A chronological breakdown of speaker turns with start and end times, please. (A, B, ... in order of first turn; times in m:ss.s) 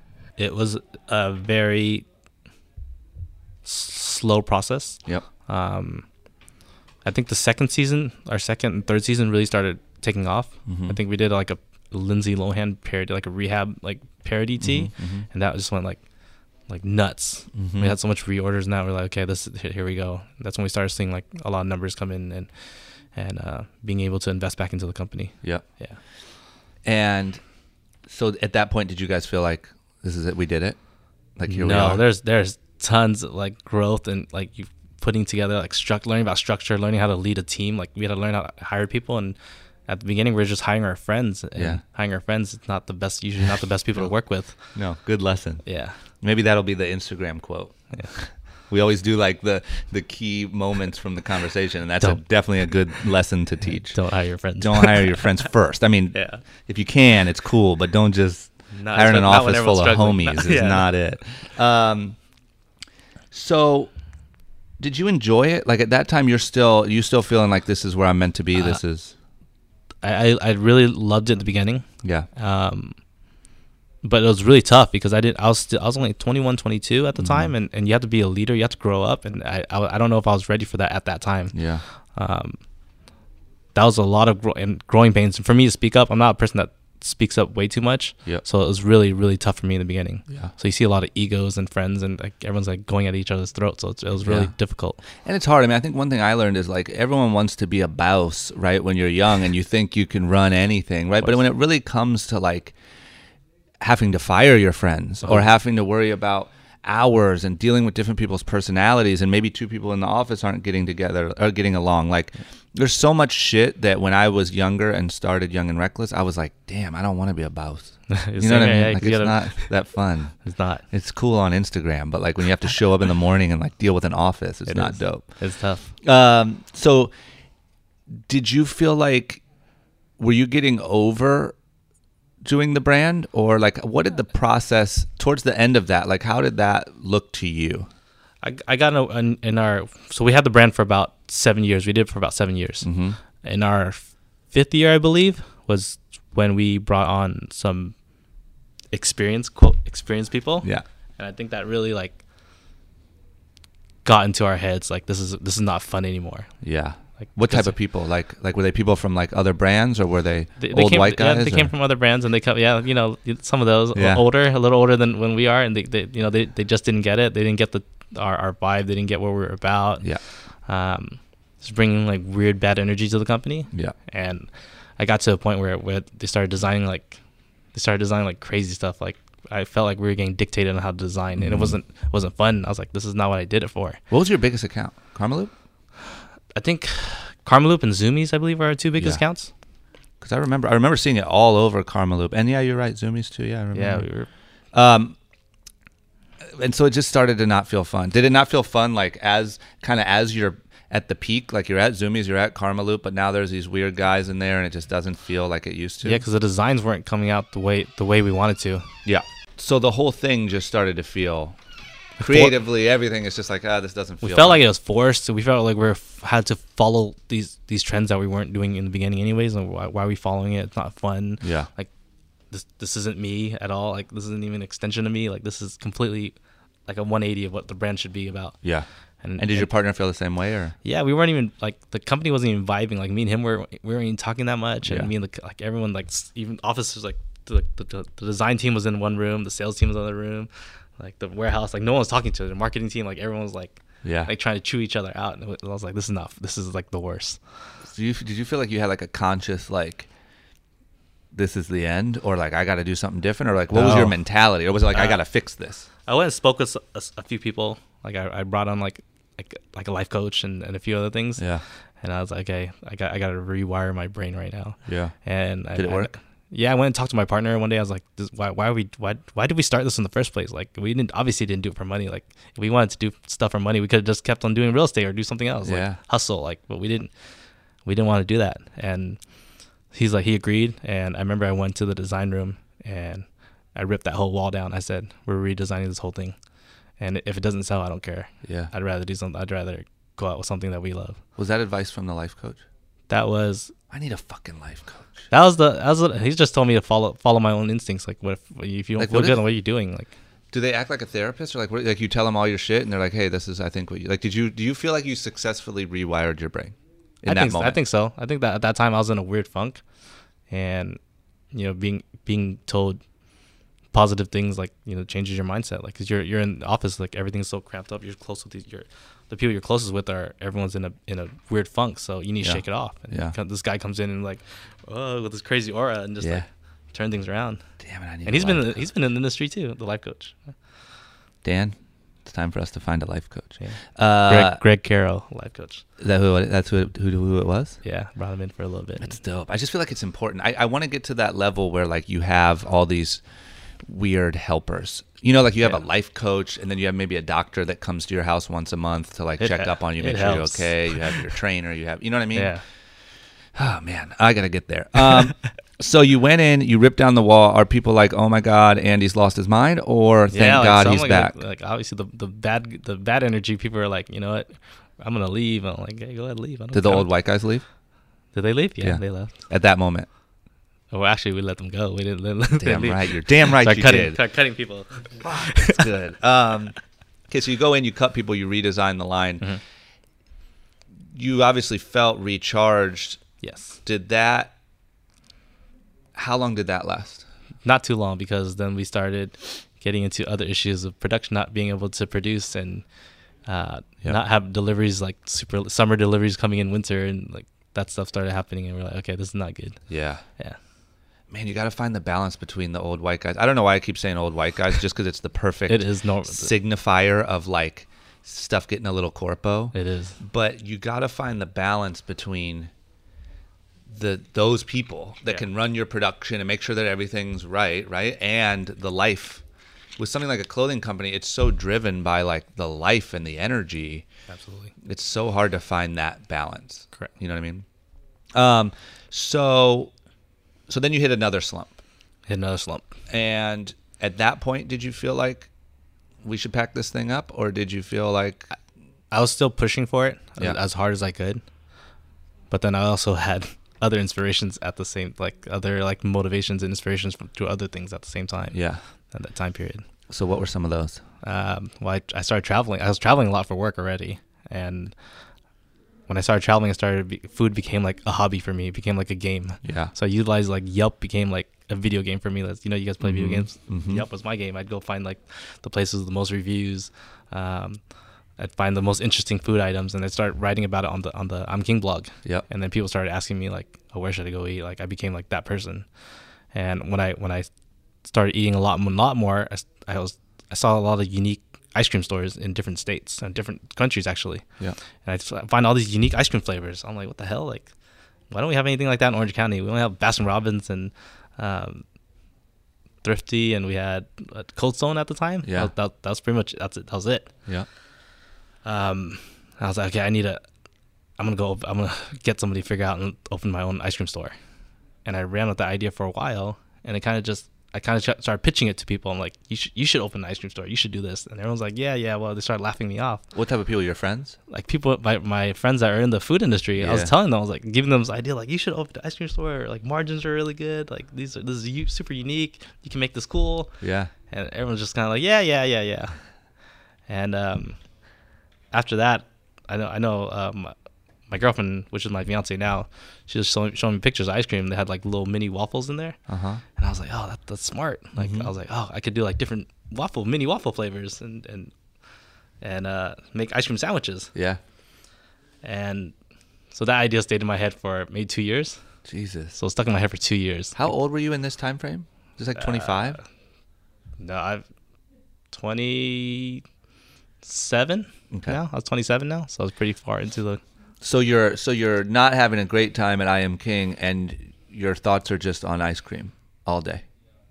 0:00.4-0:02.0 A
0:03.6-0:06.0 A
0:07.0-0:16.0 A
0:10.7-0:11.0 B
0:14.6-0:15.2 B
0:16.7-0:22.5 A
0:17.5-0:17.9 B
0:23.1-0:26.0 A
0:26.8-0:27.4 B
0:28.1-0:30.8 B
0:31.4-0:32.0 B
0:31.5-0:39.4 A
0:39.9-0:44.6 A
0:41.6-0:41.8 B
0:44.7-0:45.6 B
0:45.6-0:45.9 A
0:46.2-0:54.0 B
0:53.9-0:55.3 A
0:54.6-1:02.2 B
0:56.1-0:56.4 A
0:58.7-1:00.9 A
1:03.3-1:03.9 B
1:04.8-1:09.1 B
1:08.5-1:08.8 A
1:10.0-1:13.0 A
1:14.0-1:21.6 A
1:17.2-1:17.5 B
1:21.5-1:21.8 B
1:22.1-1:22.6 A
1:23.7-1:35.0 A
1:34.2-1:34.5 B
1:35.2-1:42.7 B
1:43.8-2:05.3 B
1:58.1-1:59.7 A
2:00.4-2:00.8 A
2:04.7-2:05.9 A
2:06.0-2:07.1 B
2:08.3-2:09.4 B
2:10.2-2:11.5 B
2:12.4-2:17.9 B
2:18.4-2:22.9 A
2:22.8-2:23.2 B
2:23.4-2:27.9 A
2:28.9-2:32.2 A
2:34.0-2:36.5 A
2:36.6-2:41.7 B
2:37.2-2:37.7 A
2:40.6-2:50.1 A
2:43.9-2:44.2 B
2:50.6-2:57.2 A
2:57.7-3:04.0 A
3:01.4-3:01.7 B
3:04.1-3:05.5 B
3:06.5-3:09.5 A
3:10.2-3:14.0 B
3:13.7-3:14.3 A
3:14.7-3:15.2 B
3:16.4-3:26.2 B
3:26.0-3:28.9 A
3:29.0-3:31.6 B
3:32.2-3:32.6 A
3:32.2-3:34.6 B
3:34.2-3:41.9 A
3:41.4-3:41.7 B
3:42.5-3:46.3 A
3:46.9-3:48.6 A
3:49.2-3:49.7 A
3:49.4-3:50.8 B
3:50.8-4:07.4 A
3:54.8-3:55.1 B
4:04.0-4:04.3 B
4:07.9-4:10.1 B
4:11.3-4:15.9 B
4:13.7-4:14.2 A
4:16.1-4:21.4 A
4:21.4-4:21.6 B
4:22.0-4:37.1 A
4:24.8-4:25.1 B
4:25.7-4:26.1 B
4:35.6-4:36.0 B
4:37.8-4:39.2 A
4:39.9-4:46.4 A
4:47.0-4:51.2 A
4:48.4-4:48.7 B
4:51.4-4:52.6 B
4:53.1-4:53.7 A
4:53.9-4:55.3 B
4:55.3-5:00.1 A
4:59.0-4:59.4 B
5:00.5-5:07.8 B
5:07.2-5:09.8 A
5:10.5-5:11.0 A
5:11.5-5:13.0 A
5:13.9-5:27.6 A
5:22.4-5:23.3 B
5:27.8-5:28.8 B
5:28.2-5:30.5 A
5:31.4-5:34.6 B
5:33.6-5:35.8 A
5:36.0-5:37.8 B
5:37.8-5:39.1 A
5:39.0-5:43.2 B
5:43.8-5:52.5 B
5:49.4-5:51.0 A
5:52.3-5:52.6 A
5:53.5-6:01.3 B
6:00.3-6:07.1 A
6:06.7-6:07.6 B
6:08.3-6:09.3 A
6:08.8-6:10.1 B
6:10.9-6:15.8 A
6:12.6-6:14.2 B
6:15.2-6:16.7 B
6:17.3-6:19.4 B
6:21.1-6:23.2 B
6:23.4-6:23.8 A
6:23.8-6:24.5 B
6:26.1-6:27.2 B
6:27.6-6:32.8 A
6:33.4-6:39.8 A
6:39.9-6:40.2 B
6:41.3-6:52.7 B
6:45.7-6:46.5 A
6:49.7-6:50.2 A
6:53.9-6:59.4 B
7:00.0-7:04.0 B
7:04.3-7:04.7 A
7:04.8-7:07.6 B
7:08.3-7:09.9 B
7:10.7-7:11.8 B
7:12.3-7:12.9 A
7:13.1-7:15.5 B
7:16.2-7:18.5 B
7:19.1-7:21.4 A
7:22.5-7:28.6 A
7:28.5-7:28.8 B
7:29.1-7:29.8 A
7:30.1-7:31.0 B
7:31.2-7:34.9 A
7:36.1-7:47.8 A
7:39.6-7:39.9 B
7:43.0-7:44.0 B
7:48.4-7:55.8 A
7:56.5-7:57.5 A
7:58.0-8:04.4 A
8:05.0-8:07.7 A
8:08.3-8:11.8 A
8:13.0-8:17.3 A
8:15.4-8:15.7 B
8:18.6-8:20.4 A
8:21.2-8:24.3 A
8:25.0-8:33.2 A
8:33.3-8:34.4 B
8:34.5-8:43.7 A
8:36.8-8:37.1 B
8:43.8-8:44.1 B
8:44.3-8:46.2 A
8:47.1-8:47.8 A
8:48.7-8:50.7 A
8:51.3-8:56.2 A
8:56.3-8:56.6 B
8:56.8-9:01.7 A
8:58.2-8:58.5 B
9:02.6-9:04.3 A
9:04.3-9:04.6 B
9:05.6-9:06.1 A
9:06.7-9:08.8 A
9:09.0-9:09.6 B
9:09.6-9:10.7 A
9:10.7-9:13.2 B
9:12.6-9:13.2 A
9:14.2-9:14.6 A
9:15.5-9:16.6 A
9:17.4-9:20.6 A
9:18.3-9:18.6 B
9:21.0-9:27.0 B